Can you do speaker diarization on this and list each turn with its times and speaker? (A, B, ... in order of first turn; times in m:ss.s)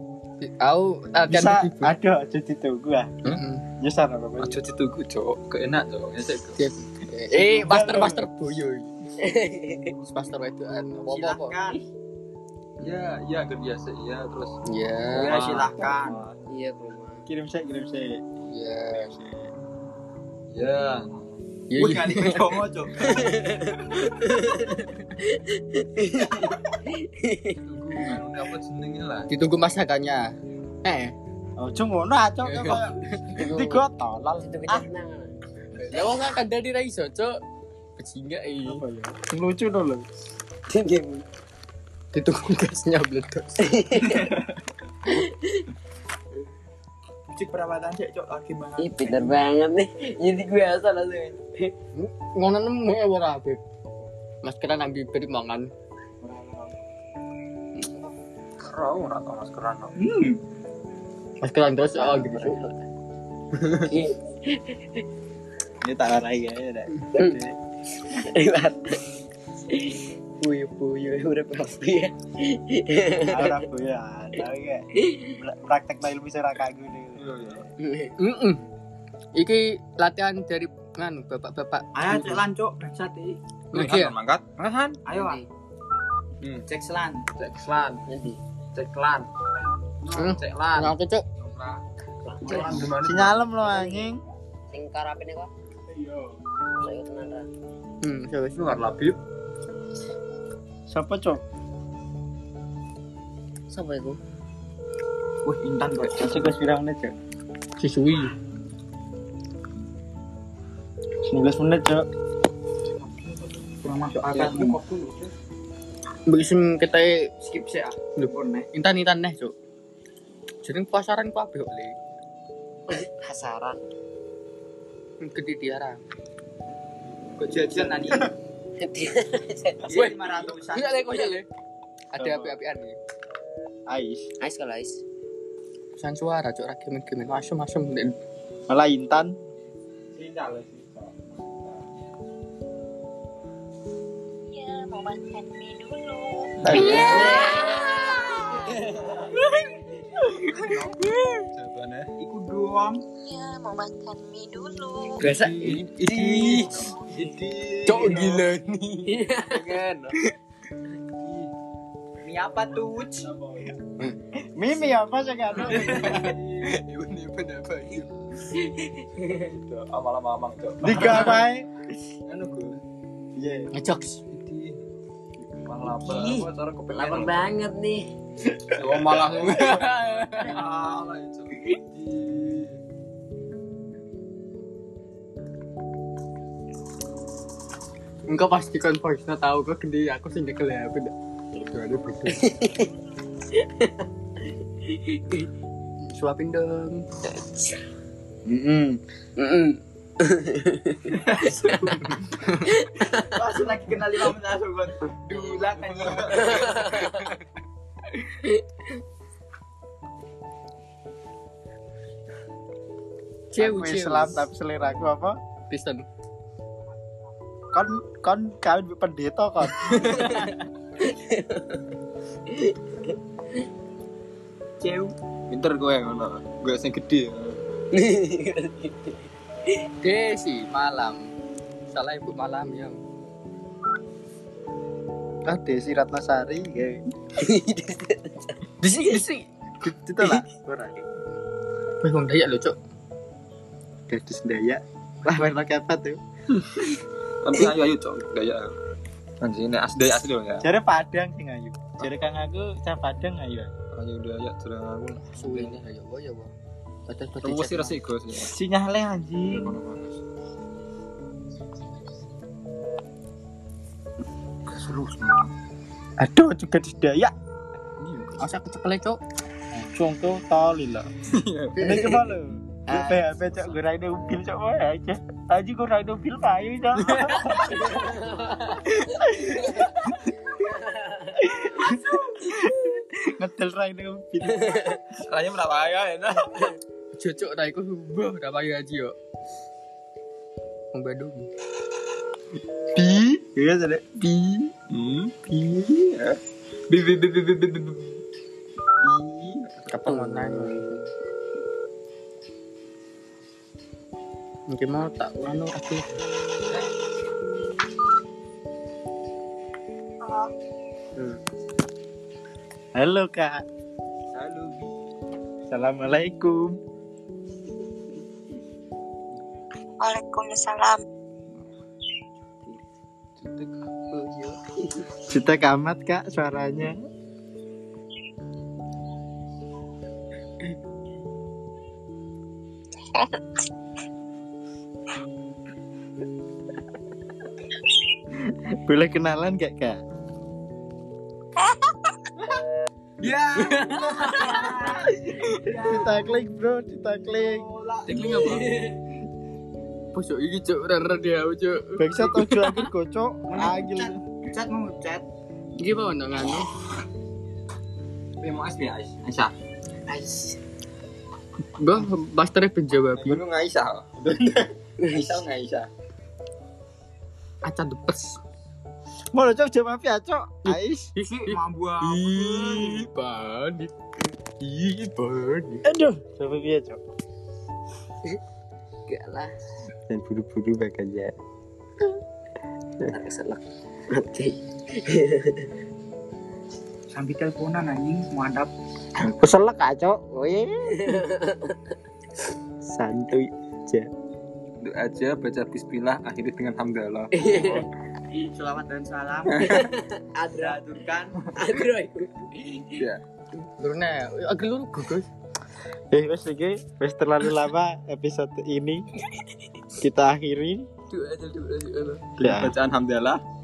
0:00.4-0:01.9 A
0:01.3-0:04.6 B
0:03.2-0:03.6 A
0:04.4-0:06.6 C
0:06.6-0:08.9 A
0:07.3-0:08.3 B
0:09.2-0:09.9 D
0:10.0-0:11.7 A
0:11.1-0:11.7 E
0:12.8-0:14.6 C
0:14.6-0:15.7 A
0:15.1-0:16.4 C
0:15.2-0:16.2 E
0:16.5-0:17.2 D
0:17.3-0:18.2 B
0:18.5-0:19.1 A
0:18.9-0:19.5 B
0:20.5-0:21.4 C
0:21.7-0:22.6 A
0:21.8-0:23.4 E
0:22.9-0:27.6 D
0:27.6-0:29.3 C
0:29.3-0:31.1 A
0:31.6-0:34.8 B
0:32.6-0:33.2 A
0:33.3-0:35.4 D
0:35.7-0:37.4 A
0:38.0-0:38.8 A
0:38.6-0:40.0 B
0:40.7-0:41.2 D
0:42.1-0:44.1 A
0:43.6-0:44.4 D
0:45.0-0:45.7 D
0:47.3-0:49.4 E
0:48.8-0:51.7 D
0:51.9-0:53.6 A
0:54.4-0:55.7 A
0:58.6-1:00.0 C
1:00.0-1:00.4 E
1:01.4-1:02.6 A
1:01.8-1:02.8 D
1:03.8-1:05.0 D
1:05.8-1:07.5 B
1:07.9-1:09.0 D
1:09.7-1:13.6 D
1:13.3-1:17.5 B
1:15.0-1:15.3 D
1:17.2-1:17.7 C
1:17.8-1:18.2 D
1:18.2-1:18.6 A
1:19.3-1:22.2 A
1:21.9-1:23.4 E
1:23.7-1:24.1 A
1:23.7-1:25.1 C
1:25.1-1:25.5 D
1:25.1-1:25.4 E
1:26.4-1:26.7 C
1:26.7-1:27.2 E
1:27.3-1:28.2 C
1:28.1-1:28.4 D
1:28.7-1:29.3 C
1:30.0-1:31.8 C
1:30.1-1:31.2 A
1:32.2-1:32.9 D
1:32.4-1:33.4 C
1:32.4-1:32.7 E
1:32.7-1:34.2 B
1:33.6-1:34.1 D
1:34.7-1:35.5 D
1:36.8-1:37.5 D
1:38.0-1:38.8 A
1:38.6-1:39.2 C
1:40.9-1:41.4 B
1:43.7-1:44.2 D
1:45.4-1:46.5 E
1:46.1-1:47.1 B
1:47.8-1:48.3 A
1:51.3-1:52.0 B
1:53.8-1:54.8 E
1:54.1-1:55.3 C
1:56.3-1:57.3 A
1:57.4-1:58.6 E
1:58.2-1:59.5 A
2:00.6-2:01.9 A
2:02.9-2:03.8 D
2:05.2-2:06.0 A
2:07.4-2:08.3 E
2:08.8-2:10.0 D
2:09.8-2:11.4 A
2:09.9-2:10.9 E
2:11.0-2:11.3 D
2:12.1-2:13.0 A
2:12.2-2:12.5 B
2:13.9-2:14.3 B
2:14.4-2:15.0 D
2:16.0-2:18.2 A
2:18.7-2:19.3 B
2:20.1-2:21.8 C
2:24.5-2:28.6 F
2:26.6-2:27.4 B
2:26.6-2:27.4 C
2:26.7-2:27.4 E
2:26.9-2:27.6 D
2:28.6-2:29.2 C
2:30.2-2:31.4 A
2:30.4-2:31.0 C
2:31.5-2:32.1 C
2:32.2-2:33.0 E
2:33.2-2:35.3 F
2:35.2-2:38.4 C
2:35.2-2:36.9 D
2:37.8-2:39.2 A
2:39.1-2:39.8 D
2:39.4-2:40.2 C
2:41.2-2:41.5 C
2:42.2-2:43.3 E
2:44.4-2:46.4 B
2:45.6-2:48.1 C
2:48.6-2:49.5 D
2:49.3-2:51.5 C
2:50.8-2:51.7 B
2:52.2-2:52.8 C
2:53.4-2:53.7 B
2:53.7-2:54.2 A
2:54.3-2:54.8 C
2:55.6-2:57.6 C
2:55.8-2:58.1 D
2:58.7-3:02.8 C
2:59.4-3:00.6 A
3:08.3-3:12.3 A
3:11.7-3:12.4 C
3:12.3-3:12.9 D
3:13.5-3:14.1 D
3:14.8-3:15.5 D
3:16.0-3:17.0 A
3:17.2-3:17.8 D
3:18.4-3:19.0 B
3:19.4-3:21.8 D
3:21.1-3:21.9 C
3:22.6-3:24.3 D
3:23.3-3:26.4 E
3:25.3-3:27.4 C
3:26.3-3:27.2 D
3:33.5-3:34.5 A
3:33.6-3:35.4 B
3:35.7-3:36.0 A
3:37.7-3:39.9 B
3:39.8-3:40.6 C
3:39.9-3:40.5 D
3:41.0-3:41.9 D
3:42.4-3:43.6 D
3:44.8-3:45.1 E
3:45.5-3:47.6 C
3:47.9-3:49.8 D
3:50.0-3:51.3 A
3:51.9-3:53.0 A
3:55.4-3:57.0 B
3:57.4-3:58.6 D
3:58.8-3:59.4 A
3:59.8-4:01.0 B
4:02.0-4:02.7 A
4:04.1-4:06.2 B
4:06.5-4:08.8 C
4:09.4-4:10.6 C
4:10.6-4:13.7 B
4:13.9-4:15.8 C
4:15.3-4:16.5 A
4:17.1-4:18.0 A
4:17.4-4:18.5 C
4:18.4-4:19.8 B
4:19.4-4:20.2 C
4:24.6-4:25.5 C
4:26.2-4:27.3 B
4:28.0-4:28.4 C
4:28.4-4:29.2 A
4:29.8-4:31.1 B
4:31.3-4:32.2 C
4:31.8-4:37.9 B
4:32.9-4:33.8 D
4:37.0-4:38.2 C
4:37.5-4:39.8 D
4:39.0-4:39.7 B
4:39.8-4:40.1 C
4:40.5-4:41.4 D
4:41.4-4:44.9 B
4:44.7-4:45.0 D
4:45.1-4:46.7 C
4:47.1-4:49.1 A
4:50.9-4:51.5 A
4:52.9-4:54.7 B
4:54.9-4:55.3 C
4:55.5-4:55.9 B
4:55.9-4:56.4 C
4:56.9-4:58.2 C
4:59.0-5:00.9 C
4:59.9-5:01.1 A
5:04.7-5:06.2 A
5:12.9-5:13.6 B
5:14.3-5:15.0 C
5:15.7-5:16.8 B
5:20.0-5:21.0 F
5:23.4-5:24.5 C
5:25.3-5:27.0 B
5:38.8-5:40.0 B
5:41.6-5:42.1 F
5:43.2-5:46.3 E
5:43.6-5:44.8 A
5:45.8-5:47.6 B
5:47.4-5:48.5 E
5:48.1-5:48.8 A
5:48.5-5:48.8 D
5:50.1-5:52.9 A
5:52.0-5:54.1 B
5:53.5-5:55.2 E
5:55.8-5:56.7 A
5:58.4-5:59.5 C
6:00.1-6:00.6 D
6:01.8-6:03.4 A
6:03.1-6:05.9 C
6:05.0-6:05.4 D
6:07.6-6:08.4 A
6:09.3-6:11.1 B
6:10.6-6:13.9 A
6:11.3-6:13.0 E
6:14.6-6:15.8 A
6:15.8-6:17.0 B
6:19.0-6:19.5 D
6:20.1-6:21.3 B
6:23.1-6:25.7 D
6:27.1-6:28.7 E
6:29.2-6:31.2 B
6:30.9-6:31.9 D
6:32.8-6:34.1 B
6:34.8-6:37.9 C
6:37.3-6:38.5 D
6:38.6-6:39.5 E
6:39.4-6:39.9 C
6:39.6-6:41.0 D
6:40.6-6:41.3 E
6:41.5-6:43.0 D
6:43.0-6:43.2 C
6:43.8-6:45.2 A
6:46.1-6:49.0 B
6:49.2-6:49.9 D
6:50.0-6:50.8 B
6:51.1-6:52.3 D
6:52.3-6:53.4 C
6:52.4-6:52.7 B